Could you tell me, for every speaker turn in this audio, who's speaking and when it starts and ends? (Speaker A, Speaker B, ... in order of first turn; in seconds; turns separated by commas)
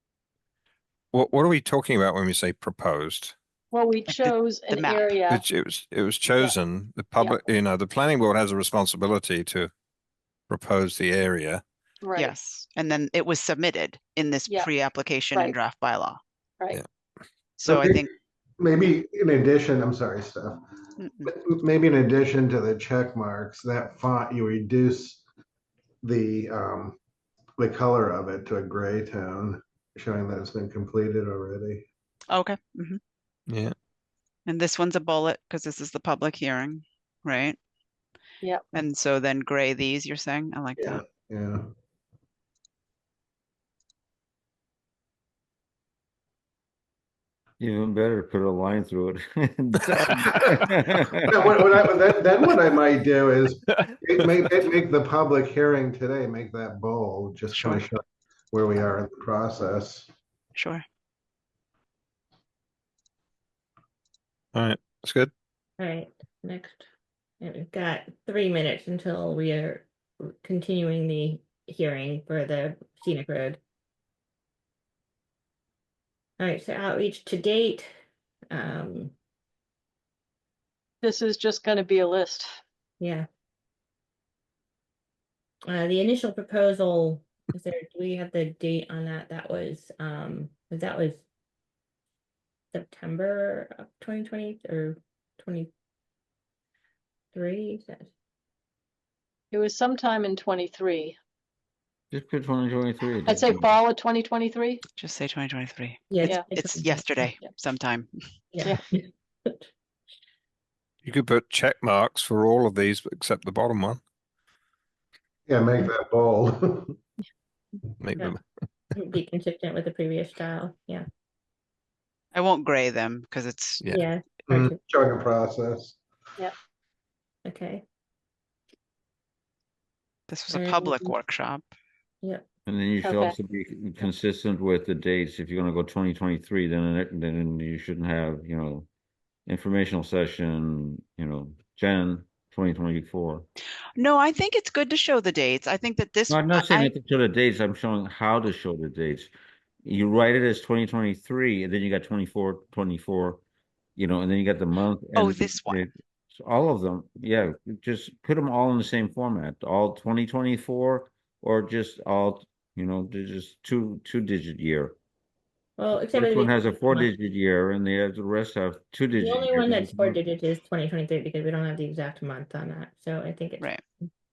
Speaker A: 1.1-3.4, Speaker B: 3.7-5.4, Speaker C: 4.1-5.2, Speaker A: 5.3-9.7, Speaker A: 10.5-11.6, Speaker B: 12.0-12.3, Speaker C: 12.2-16.2, Speaker B: 14.5-14.7, Speaker B: 15.3-15.6, Speaker C: 17.6-18.1, Speaker D: 17.7-18.1, Speaker D: 18.6-20.6, Speaker C: 21.0-21.3, Speaker D: 21.2-25.2, Speaker D: 26.0-27.0, Speaker D: 27.6-31.8, Speaker C: 32.3-33.0, Speaker A: 33.5-33.7, Speaker C: 34.5-37.6, Speaker C: 38.7-41.0, Speaker D: 40.8-41.7, Speaker E: 47.6-51.5, Speaker D: 51.3-60.1, Speaker C: 60.5-60.8, Speaker A: 64.5-65.3, Speaker F: 65.8-66.9, Speaker F: 67.4-73.6, Speaker F: 76.4-77.9, Speaker F: 78.5-79.1, Speaker B: 81.0-82.5, Speaker F: 83.0-83.3, Speaker F: 85.7-91.2, Speaker F: 92.7-95.7, Speaker F: 97.3-98.1, Speaker B: 99.5-101.2, Speaker E: 102.1-103.7, Speaker B: 103.2-104.8, Speaker C: 105.0-108.1, Speaker F: 106.1-107.0, Speaker B: 106.2-106.7, Speaker F: 108.5-109.7, Speaker A: 111.0-114.0, Speaker D: 115.5-117.0, Speaker A: 118.0-118.4, Speaker F: 118.9-121.0, Speaker C: 122.3-123.8, Speaker A: 123.8-124.1, Speaker F: 123.9-124.8, Speaker D: 124.5-126.0, Speaker F: 127.4-127.8, Speaker C: 130.3-131.7, Speaker F: 130.5-131.2, Speaker E: 132.7-138.9, Speaker B: 133.0-133.3, Speaker E: 139.5-143.5, Speaker C: 143.9-146.9, Speaker E: 146.3-149.3, Speaker E: 149.8-153.4, Speaker E: 153.9-164.9, Speaker C: 155.1-155.8, Speaker F: 165.8-167.1, Speaker E: 166.1-170.3, Speaker F: 169.2-173.7